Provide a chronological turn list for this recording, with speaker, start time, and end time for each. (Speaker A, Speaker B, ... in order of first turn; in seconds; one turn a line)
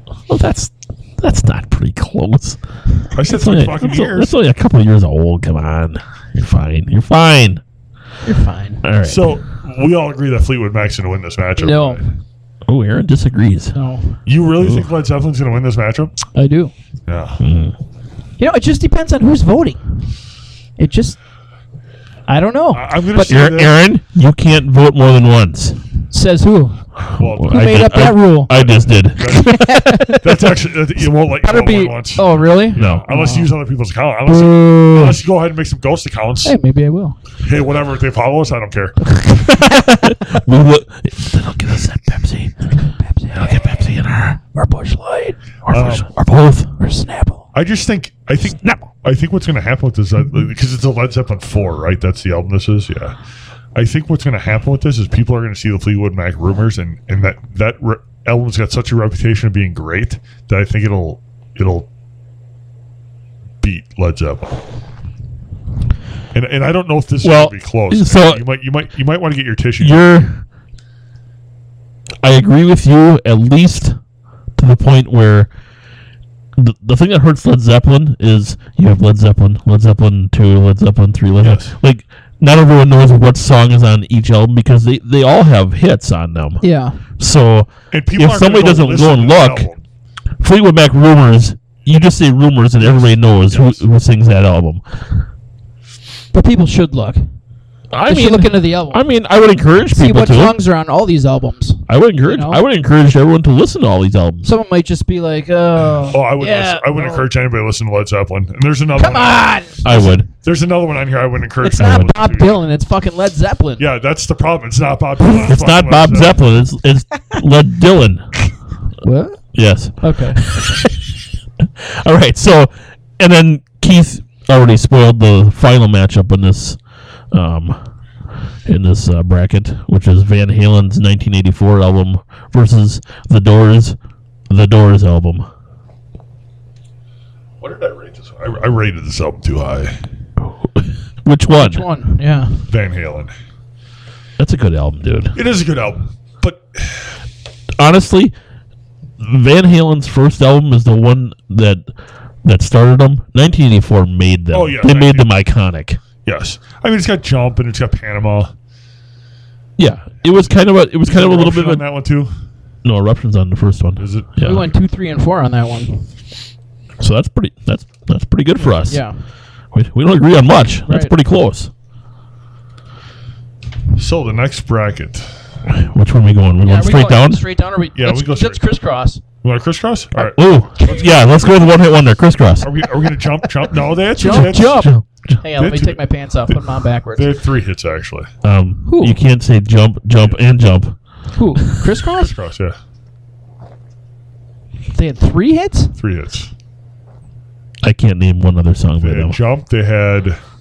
Speaker A: 0.3-2.6
Speaker B: 3.1-4.3
Speaker A: 3.2-7.6
Speaker C: 8.2-8.8
Speaker A: 8.8-9.3
Speaker B: 9.0-12.0
Speaker C: 11.6-12.1
Speaker A: 12.7-13.7
Speaker C: 13.7-14.2
Speaker B: 14.2-16.2
Speaker A: 14.6-14.9
Speaker C: 16.3-16.7
Speaker B: 17.1-17.4
Speaker A: 17.4-17.8
Speaker C: 18.4-20.0
Speaker C: 20.8-21.2
Speaker C: 22.3-23.4
Speaker B: 22.7-23.8
Speaker A: 23.2-25.8
Speaker C: 26.1-26.9
Speaker B: 27.1-36.5
Speaker A: 27.2-29.7
Speaker C: 27.4-28.6
Speaker C: 29.2-30.5
Speaker C: 31.3-33.5
Speaker A: 32.7-33.0
Speaker C: 34.3-35.2
Speaker C: 36.4-37.2
Speaker B: 37.4-39.0
Speaker C: 39.1-40.4
Speaker A: 40.0-42.7
Speaker C: 42.9-43.6
Speaker A: 43.3-44.4
Speaker C: 44.5-45.4
Speaker A: 45.6-46.7
Speaker B: 45.7-46.1
Speaker C: 46.8-47.5
Speaker B: 47.5-53.1
Speaker A: 48.5-48.9
Speaker B: 53.7-61.9
Speaker B: 63.6-64.6
Speaker B: 66.3-70.0
Speaker A: 67.2-68.4
Speaker A: 69.8-70.4
Speaker A: 72.2-74.0
Speaker A: 74.6-75.5
Speaker A: 76.5-86.6
Speaker B: 81.4-81.7
Speaker C: 86.6-87.0
Speaker A: 87.2-89.7
Speaker B: 87.9-89.8
Speaker A: 90.4-94.8
Speaker B: 92.8-93.8
Speaker C: 96.3-97.2
Speaker A: 97.9-100.6
Speaker C: 98.1-99.0
Speaker C: 99.9-102.6
Speaker A: 101.9-104.5
Speaker C: 104.4-107.3
Speaker B: 106.1-112.6
Speaker C: 109.0-110.2
Speaker A: 109.8-110.3
Speaker C: 111.6-113.8
Speaker A: 111.8-112.1
Speaker B: 113.8-116.5
Speaker A: 115.2-118.3
Speaker C: 119.0-119.4
Speaker A: 119.5-120.9
Speaker C: 120.0-120.4
Speaker A: 121.6-126.8
Speaker A: 127.3-127.8
Speaker A: 128.7-134.0
Speaker A: 134.5-135.5
Speaker B: 137.6-139.9
Speaker A: 140.4-141.8
Speaker C: 141.5-142.6
Speaker B: 142.7-143.3
Speaker A: 144.4-145.3
Speaker B: 145.3-147.2
Speaker A: 147.8-148.3
Speaker A: 149.2-151.8
Speaker A: 152.4-156.0
Speaker B: 154.5-155.3
Speaker B: 156.2-158.5
Speaker A: 159.8-161.8
Speaker B: 161.0-162.3
Speaker A: 162.8-164.7
Speaker B: 164.0-164.4
Speaker C: 164.4-166.1
Speaker A: 167.0-169.0
Speaker C: 168.6-169.2
Speaker A: 169.7-171.7
Speaker C: 170.8-171.1
Speaker B: 173.9-175.3
Speaker A: 175.7-177.4
Speaker C: 176.6-179.2
Speaker B: 177.9-178.8
Speaker B: 179.4-180.4
Speaker A: 180.2-182.7
Speaker C: 180.8-181.2
Speaker B: 181.0-181.4
Speaker B: 182.6-184.9
Speaker C: 184.1-187.3
Speaker A: 184.2-185.4
Speaker B: 185.6-188.3
Speaker A: 188.4-190.9
Speaker C: 188.8-189.2
Speaker C: 191.3-192.3
Speaker B: 192.1-192.8
Speaker C: 194.9-195.9
Speaker B: 196.0-196.5
Speaker A: 197.8-199.4
Speaker B: 199.0-200.4